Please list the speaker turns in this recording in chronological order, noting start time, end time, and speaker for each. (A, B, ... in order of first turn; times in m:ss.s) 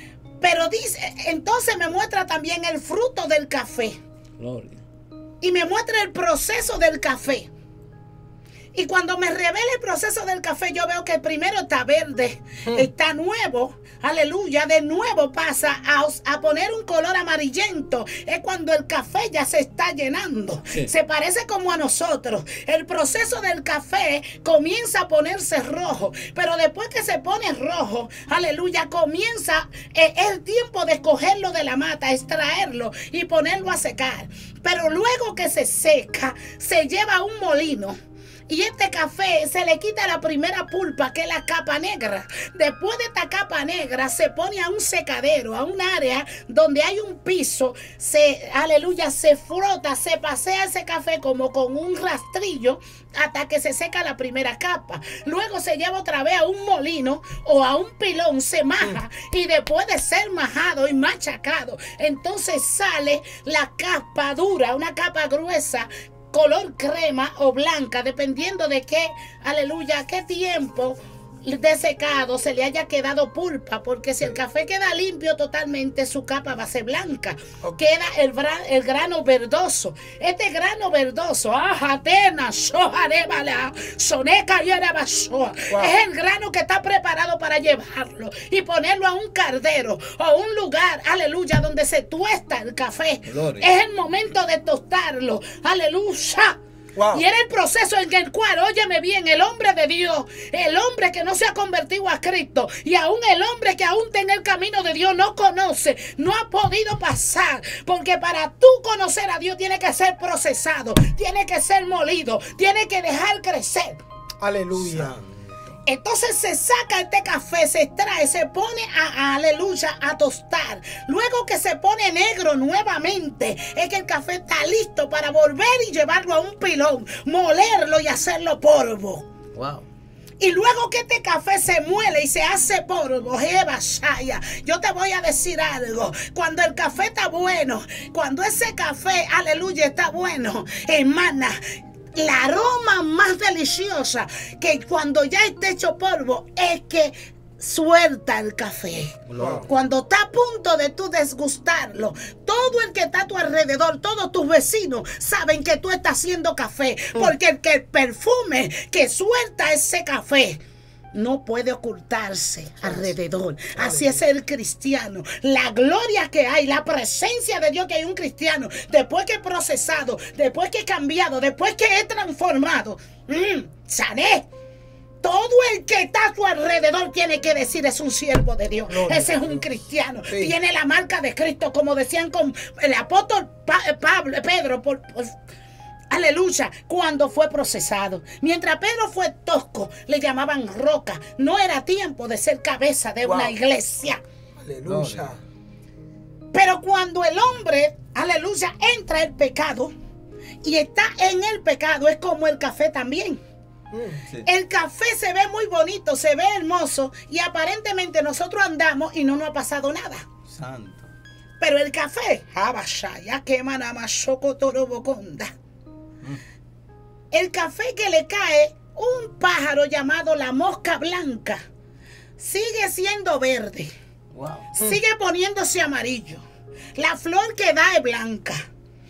0:00.4-0:04.0 A
0:04.4-0:04.8 B
0:05.4-0:07.5 A
0:08.7-0:38.0 A
0:38.5-1:36.6 A
1:33.3-1:33.7 B
1:37.0-1:37.2 C
1:37.1-1:54.0 A
1:54.4-1:55.2 C
1:54.7-1:55.6 B
1:55.9-2:09.3 A
2:09.5-2:09.9 B
2:10.4-2:21.6 A
2:22.2-2:40.6 A
2:29.3-2:29.7 B
2:29.4-2:29.7 C
2:41.1-2:54.5 A
2:42.8-2:43.1 C
2:43.8-2:44.2 C
2:55.2-3:05.4 A
2:58.9-2:59.7 C
3:00.3-3:00.5 C
3:06.1-3:14.2 A
3:13.2-3:13.6 C
3:14.6-3:15.4 C
3:14.9-3:15.2 B
3:16.5-3:19.9 A
3:20.6-3:23.4 A
3:23.9-3:24.2 C
3:24.4-3:30.3 A
3:30.5-3:31.1 B
3:31.6-3:35.5 A
3:37.3-3:41.6 A
3:42.4-3:43.9 A
3:44.3-3:44.7 B
3:44.7-3:46.4 A
3:47.0-3:48.7 A